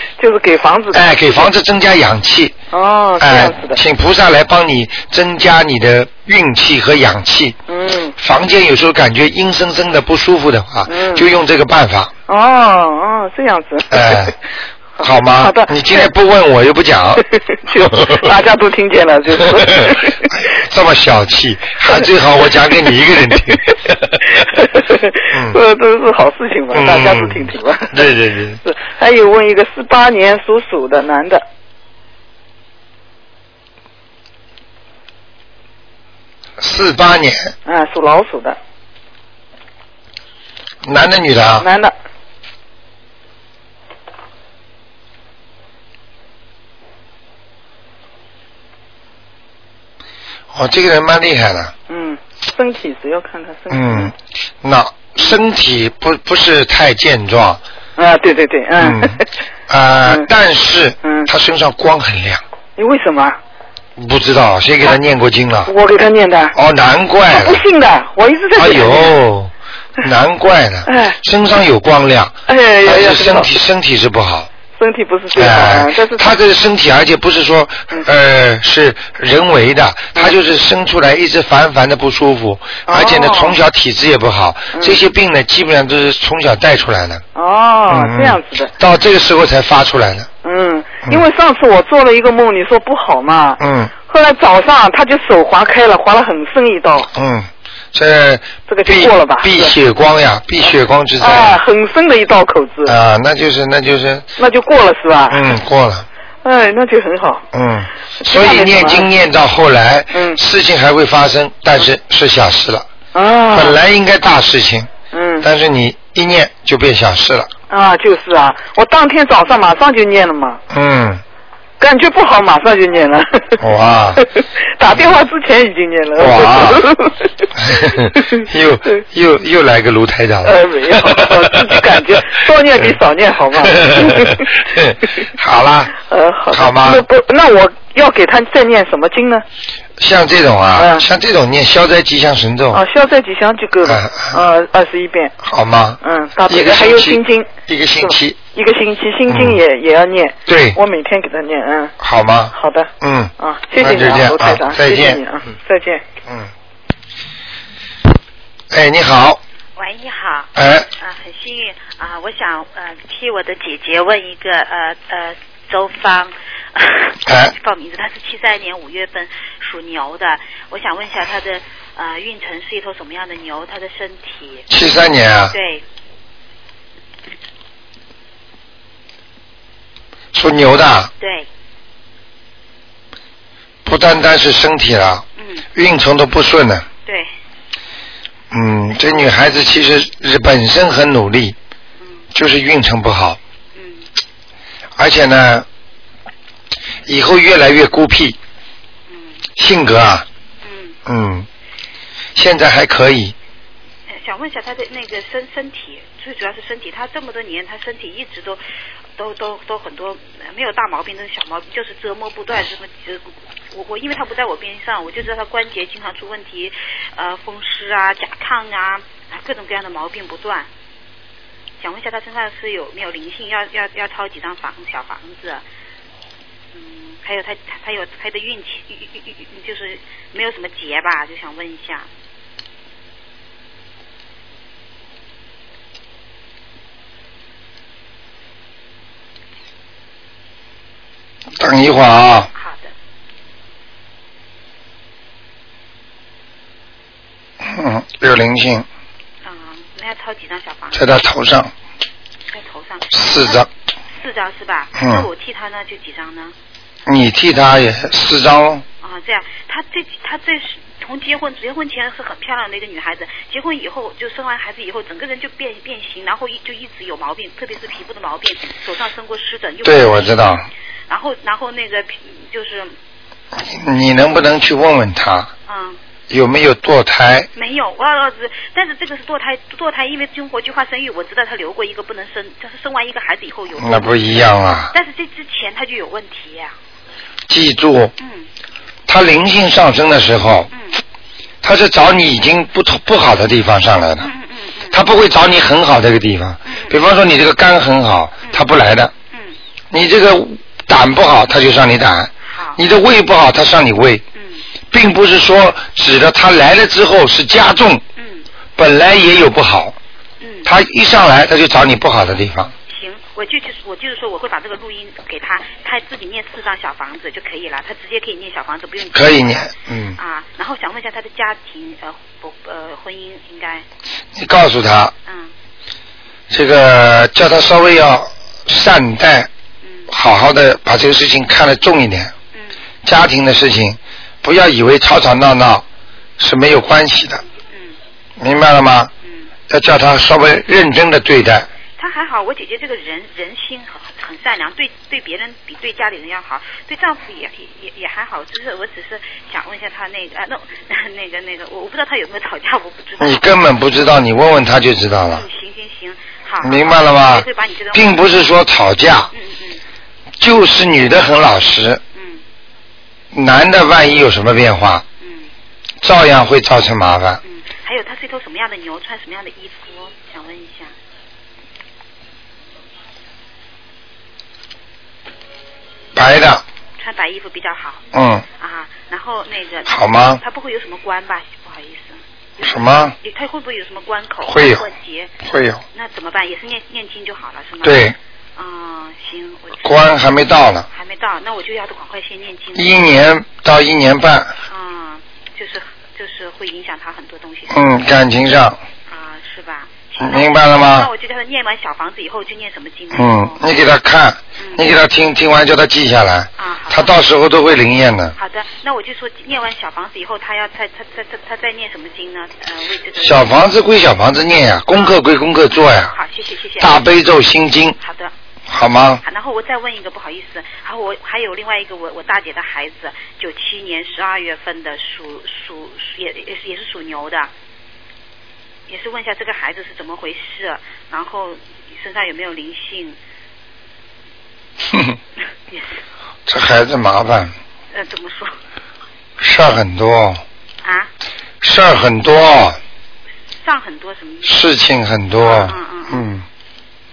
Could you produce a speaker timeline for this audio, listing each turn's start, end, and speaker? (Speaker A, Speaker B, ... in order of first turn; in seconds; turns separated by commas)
Speaker A: 0.2-1.5, Speaker B: 0.9-2.6, Speaker A: 2.7-3.8, Speaker B: 3.2-7.6, Speaker A: 7.7-8.2, Speaker B: 8.2-12.1, Speaker A: 10.9-11.3, Speaker A: 12.3-14.3, Speaker B: 13.9-14.3, Speaker B: 15.0-17.3, Speaker A: 15.0-16.1, Speaker A: 17.2-20.3, Speaker B: 17.8-18.3, Speaker B: 19.8-24.2, Speaker A: 21.9-22.8, Speaker A: 24.2-28.1, Speaker B: 25.3-25.6, Speaker B: 26.7-28.6, Speaker A: 28.6-31.4, Speaker B: 36.6-37.5, Speaker A: 37.7-38.6, Speaker B: 40.8-41.7, Speaker A: 41.6-41.9, Speaker B: 50.5-51.7, Speaker A: 51.9-54.1, Speaker B: 53.7-57.6, Speaker A: 58.0-59.3, Speaker B: 58.8-62.4, Speaker A: 61.0-61.3, Speaker A: 62.8-63.4, Speaker B: 64.0-65.7, Speaker A: 65.7-66.6, Speaker B: 66.5-67.6, Speaker A: 67.3-69.1, Speaker B: 68.5-74.5, Speaker A: 70.9-71.2, Speaker A: 72.5-73.5, Speaker A: 74.8-76.3, Speaker B: 75.3-87.2, Speaker A: 82.9-83.6, Speaker A: 84.7-85.0, Speaker A: 87.3-88.7, Speaker B: 87.9-90.3, Speaker A: 90.4-97.1, Speaker B: 93.6-93.9, Speaker B: 97.1-101.6, Speaker A: 98.7-99.7, Speaker A: 101.2-103.0, Speaker B: 102.8-104.3, Speaker A: 104.4-105.5, Speaker B: 105.3-106.1, Speaker A: 106.4-107.5, Speaker B: 107.5-112.9, Speaker A: 108.2-109.1, Speaker A: 110.1-110.4, Speaker A: 113.1-113.8, Speaker B: 113.5-117.5, Speaker A: 115.1-115.5, Speaker A: 117.7-120.6, Speaker B: 120.7-121.2, Speaker A: 121.8-123.6, Speaker B: 123.6-124.3, Speaker A: 124.2-128.4, Speaker B: 126.2-126.9, Speaker B: 127.5-131.8, Speaker A: 130.4-134.6, Speaker B: 133.8-135.9, Speaker A: 136.0-139.4, Speaker B: 136.5-137.0, Speaker B: 140.0-142.8, Speaker A: 140.8-141.1, Speaker A: 142.7-145.3, Speaker B: 143.8-144.4, Speaker B: 145.4-148.4, Speaker A: 146.0-147.5, Speaker A: 148.0-151.9, Speaker B: 149.3-149.6, Speaker B: 150.5-150.8, Speaker B: 152.0-155.2, Speaker A: 152.5-156.0, Speaker B: 158.7-159.4, Speaker C: 159.8-174.7, Speaker B: 160.6-160.9, Speaker B: 167.3-167.5, Speaker B: 174.7-175.6, Speaker C: 175.5-175.8, Speaker B: 180.3-181.1, Speaker C: 181.2-181.5, Speaker B: 183.9-185.2, Speaker C: 185.4-185.7, Speaker B: 185.8-186.9, Speaker C: 187.1-187.3, Speaker B: 188.5-191.6, Speaker B: 192.3-193.4, Speaker C: 193.8-194.1, Speaker B: 195.0-195.7, Speaker B: 197.1-198.4, Speaker C: 199.1-199.4, Speaker B: 199.6-200.3, Speaker C: 200.6-201.0, Speaker B: 201.1-201.5, Speaker B: 202.3-203.3, Speaker C: 204.1-208.6, Speaker C: 209.2-220.7, Speaker C: 221.8-225.6, Speaker C: 226.7-232.1, Speaker B: 241.6-242.5, Speaker C: 242.6-242.9, Speaker B: 247.6-248.9, Speaker C: 249.4-251.1, Speaker B: 250.9-251.7, Speaker C: 252.5-256.6, Speaker B: 253.1-253.7, Speaker B: 255.0-255.3, Speaker B: 257.1-258.9, Speaker C: 259.0-272.9, Speaker B: 269.8-270.7, Speaker B: 273.5-275.5, Speaker C: 275.7-276.0, Speaker B: 276.3-277.5, Speaker C: 277.6-286.8, Speaker B: 283.8-284.9, Speaker B: 287.5-288.1, Speaker C: 288.2-288.5, Speaker B: 289.1-290.7, Speaker C: 290.7-291.0, Speaker B: 291.6-294.3, Speaker C: 294.2-295.0, Speaker B: 294.9-299.1, Speaker C: 296.7-296.9, Speaker C: 299.3-299.6, Speaker B: 299.9-304.2, Speaker C: 302.5-302.8, Speaker C: 304.4-304.6, Speaker B: 304.9-308.0, Speaker C: 308.2-308.5, Speaker B: 308.8-310.0, Speaker C: 310.4-310.7, Speaker B: 310.7-312.7, Speaker C: 312.9-323.9, Speaker B: 319.1-320.2, Speaker B: 324.4-325.1, Speaker C: 325.3-325.5, Speaker B: 326.5-329.5, Speaker C: 329.8-330.1, Speaker B: 330.1-332.3, Speaker B: 333.0-335.9, Speaker B: 336.4-337.4, Speaker C: 337.7-338.0, Speaker B: 338.4-339.1, Speaker B: 339.7-341.7, Speaker C: 342.0-353.5, Speaker B: 353.2-355.4, Speaker C: 355.3-358.5, Speaker B: 356.6-359.3, Speaker C: 359.3-359.8, Speaker B: 360.4-362.0, Speaker C: 362.1-362.4, Speaker B: 363.3-365.1, Speaker C: 365.2-365.5, Speaker B: 366.0-367.4, Speaker C: 367.4-370.9, Speaker B: 376.1-376.6, Speaker C: 377.0-378.0, Speaker B: 378.1-378.4, Speaker C: 378.6-385.3, Speaker B: 379.9-380.4, Speaker B: 382.6-383.2, Speaker B: 384.4-384.9, Speaker B: 385.4-385.8, Speaker C: 385.9-389.9, Speaker B: 387.8-388.2, Speaker B: 389.8-390.9, Speaker C: 390.9-393.2, Speaker B: 392.8-394.6, Speaker C: 394.7-397.8, Speaker B: 397.7-398.8, Speaker C: 399.1-403.6, Speaker B: 400.2-401.1, Speaker B: 403.1-408.4, Speaker C: 404.6-404.9, Speaker C: 406.6-407.2, Speaker C: 408.4-413.5, Speaker B: 413.2-416.1, Speaker C: 414.9-415.2, Speaker C: 416.1-417.1, Speaker B: 416.8-418.0, Speaker C: 418.0-418.3, Speaker B: 418.7-419.2, Speaker C: 419.2-427.5, Speaker C: 428.9-433.2, Speaker B: 434.9-435.2, Speaker C: 435.7-436.0, Speaker B: 436.5-437.5, Speaker C: 437.9-438.6, Speaker B: 439.4-440.4, Speaker C: 440.8-441.1, Speaker B: 441.6-442.8, Speaker C: 443.6-444.6, Speaker B: 444.4-446.5, Speaker C: 445.4-446.3